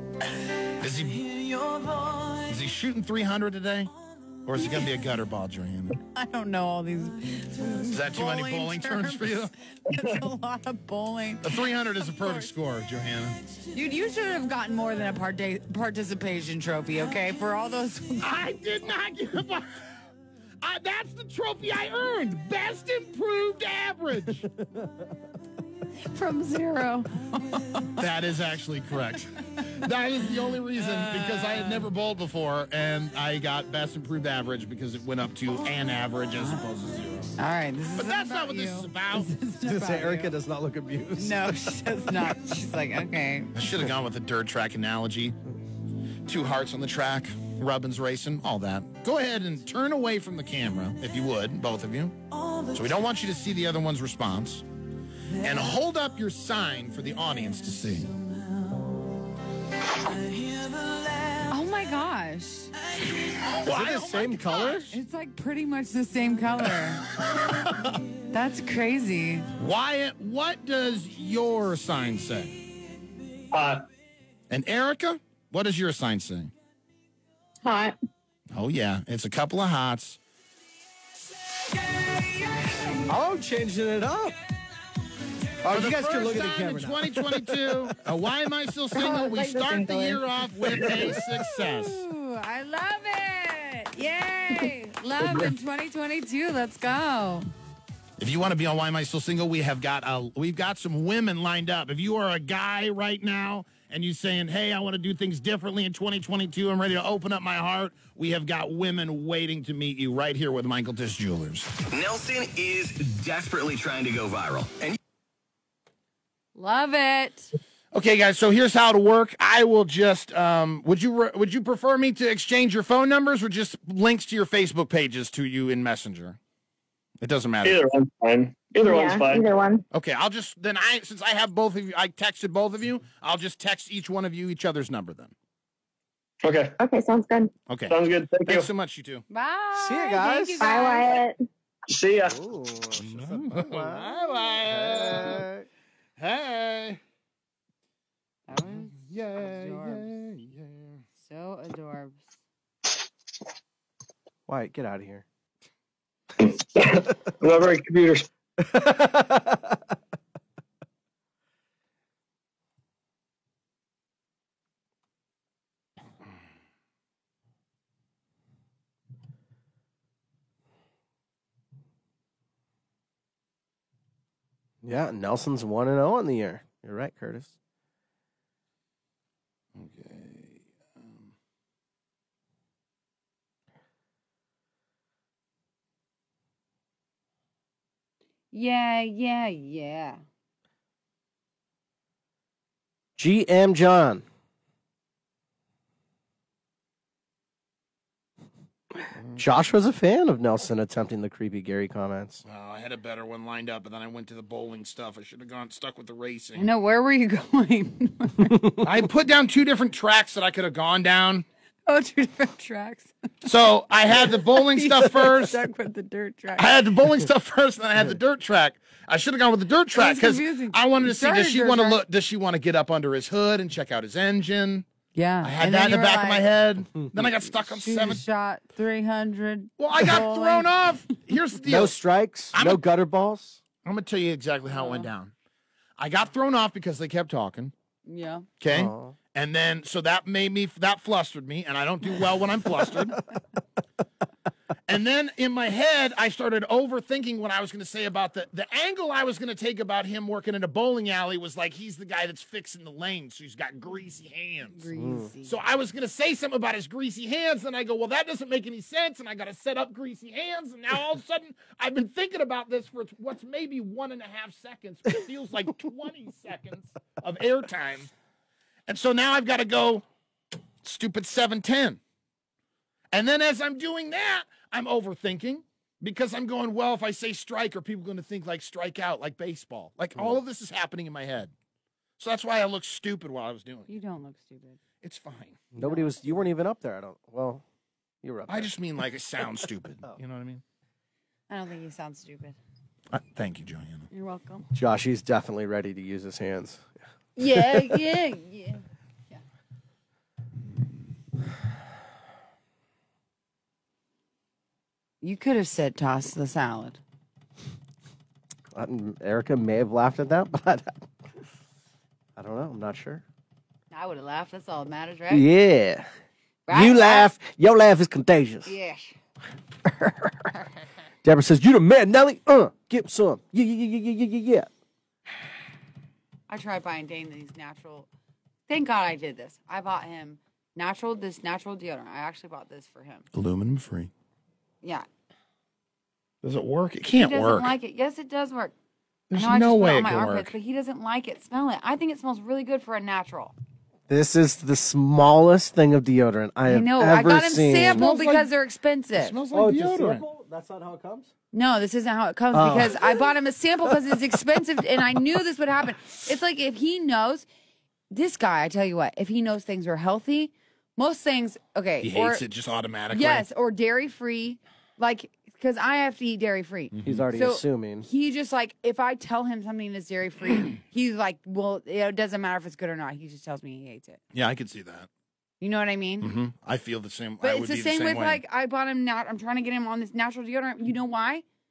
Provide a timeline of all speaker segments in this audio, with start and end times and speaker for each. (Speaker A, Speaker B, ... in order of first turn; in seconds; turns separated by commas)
Speaker A: 0.8-1.3, Speaker A: 2.4-3.9, Speaker A: 4.5-6.0, Speaker B: 4.6-4.8, Speaker B: 6.1-12.5, Speaker A: 7.9-9.5, Speaker A: 11.4-13.4, Speaker B: 13.7-18.3, Speaker A: 18.2-19.7, Speaker A: 20.6-24.5, Speaker C: 24.6-25.1, Speaker B: 26.1-28.0, Speaker A: 28.0-37.4, Speaker B: 30.8-31.9, Speaker B: 37.4-40.4, Speaker A: 38.0-39.3, Speaker C: 39.6-41.8, Speaker B: 41.2-43.5, Speaker A: 43.5-45.4, Speaker A: 46.3-52.2, Speaker A: 52.7-54.6, Speaker A: 55.4-58.1, Speaker B: 61.4-62.8, Speaker A: 63.5-64.9, Speaker C: 63.6-64.9, Speaker B: 64.9-67.0, Speaker A: 67.4-68.0, Speaker B: 68.2-69.5, Speaker A: 69.6-72.6, Speaker D: 73.5-73.9, Speaker A: 74.5-76.5, Speaker E: 77.6-77.9, Speaker A: 78.5-80.2, Speaker C: 83.0-84.4, Speaker C: 85.6-87.9, Speaker A: 85.7-92.0, Speaker E: 89.0-90.2, Speaker C: 90.7-91.2, Speaker B: 91.2-97.5, Speaker A: 98.2-111.7, Speaker F: 111.8-115.0, Speaker B: 116.6-117.5, Speaker A: 117.9-126.4, Speaker A: 127.2-127.9, Speaker D: 127.6-129.5, Speaker E: 128.8-129.8, Speaker A: 129.9-135.3, Speaker D: 136.4-136.8, Speaker E: 136.8-137.5, Speaker A: 137.7-139.2, Speaker D: 137.9-138.7, Speaker B: 139.3-141.2, Speaker C: 139.7-140.8, Speaker E: 140.6-141.4, Speaker D: 141.9-142.4, Speaker C: 142.2-145.7, Speaker A: 143.0-145.4, Speaker A: 146.2-147.0, Speaker B: 148.5-150.1, Speaker A: 148.9-151.0, Speaker B: 151.2-152.3, Speaker C: 154.5-155.2, Speaker D: 156.4-158.3, Speaker C: 158.6-159.8, Speaker C: 174.8-177.5, Speaker A: 179.8-181.3, Speaker B: 188.5-190.2, Speaker C: 193.2-194.2, Speaker C: 199.4-202.4, Speaker A: 202.5-206.7, Speaker B: 206.6-208.6, Speaker A: 208.8-211.5, Speaker B: 211.9-213.1, Speaker A: 213.4-215.6, Speaker B: 214.2-216.9, Speaker A: 216.6-224.9, Speaker B: 219.9-222.0, Speaker B: 225.1-226.5, Speaker A: 225.4-228.2, Speaker B: 227.2-230.8, Speaker A: 229.8-232.0, Speaker C: 231.7-233.6, Speaker A: 232.5-232.8, Speaker A: 233.8-235.3, Speaker B: 234.7-235.1, Speaker A: 236.0-237.7, Speaker B: 238.1-238.5, Speaker A: 238.6-243.2, Speaker C: 238.7-239.2, Speaker A: 244.9-254.8, Speaker B: 254.7-255.6, Speaker C: 255.0-255.3, Speaker A: 255.4-268.1, Speaker A: 268.9-270.0, Speaker A: 270.8-272.0, Speaker A: 273.1-281.5, Speaker A: 282.2-283.9, Speaker B: 283.9-284.8, Speaker A: 285.0-285.6, Speaker C: 285.7-287.6, Speaker B: 285.8-286.4, Speaker C: 288.2-288.7, Speaker A: 288.5-290.6, Speaker B: 291.5-292.6, Speaker A: 293.1-294.1, Speaker B: 294.1-294.7, Speaker C: 294.7-296.9, Speaker B: 297.4-299.4, Speaker B: 305.2-307.0, Speaker C: 308.7-310.9, Speaker C: 312.4-313.2, Speaker B: 313.9-315.5, Speaker C: 315.3-316.1, Speaker B: 316.7-317.3, Speaker C: 316.7-318.7, Speaker B: 318.6-319.1, Speaker C: 319.9-320.5, Speaker C: 321.2-324.7, Speaker B: 326.5-328.1, Speaker B: 328.7-333.3, Speaker A: 333.3-334.1, Speaker A: 336.4-337.7, Speaker B: 337.2-338.7, Speaker A: 339.3-340.5, Speaker B: 339.3-343.5, Speaker C: 344.1-348.1, Speaker B: 346.7-349.4, Speaker A: 347.9-348.5, Speaker A: 349.1-350.2, Speaker C: 349.5-351.3, Speaker B: 351.5-357.5, Speaker C: 352.5-353.2, Speaker B: 358.1-362.4, Speaker A: 362.0-363.4, Speaker B: 363.1-374.2, Speaker A: 366.9-367.3, Speaker C: 367.1-368.1, Speaker A: 374.3-375.1, Speaker B: 375.6-376.3, Speaker A: 376.2-378.4, Speaker B: 377.4-381.4